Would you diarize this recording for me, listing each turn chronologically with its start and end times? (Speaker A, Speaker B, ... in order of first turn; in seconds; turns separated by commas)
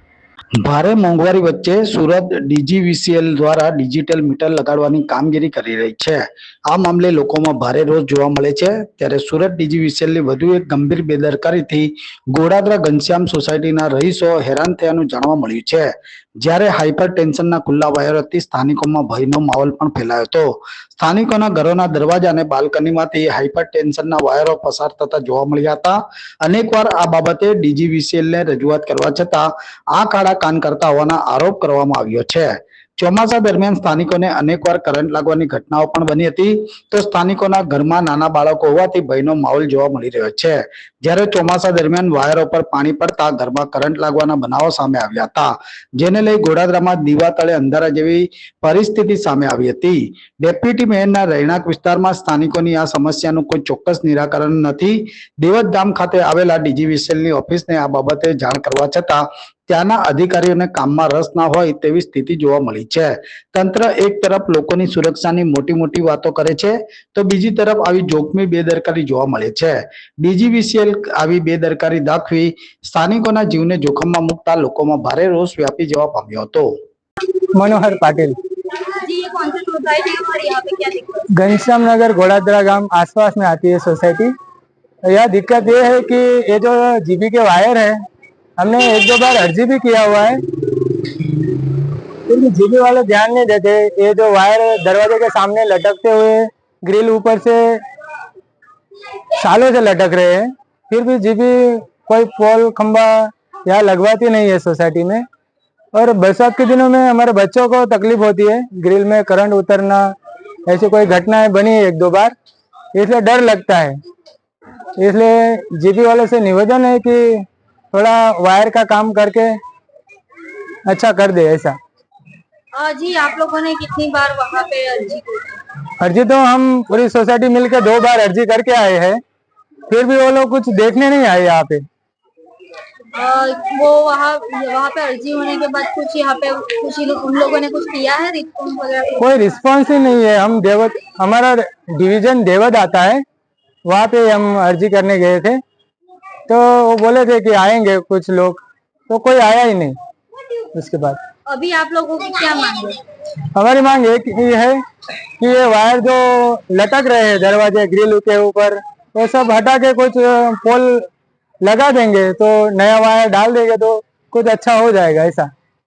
Speaker A: 0.6-76.7, Speaker B: 77.5-78.4, Speaker C: 79.0-81.3, Speaker B: 81.3-84.3, Speaker B: 85.1-88.0, Speaker B: 88.6-90.4, Speaker B: 92.3-97.8, Speaker B: 99.4-105.2, Speaker B: 105.9-110.2, Speaker B: 110.7-112.3, Speaker B: 112.9-114.0, Speaker B: 115.0-119.6, Speaker B: 120.9-121.8, Speaker C: 122.8-125.6, Speaker B: 126.0-129.2, Speaker B: 129.9-131.8, Speaker C: 133.1-139.2, Speaker B: 139.2-143.2, Speaker B: 143.9-145.6, Speaker B: 146.5-150.0, Speaker B: 150.7-151.2, Speaker C: 151.5-153.0, Speaker B: 153.6-154.8, Speaker B: 155.4-161.1, Speaker B: 161.6-165.5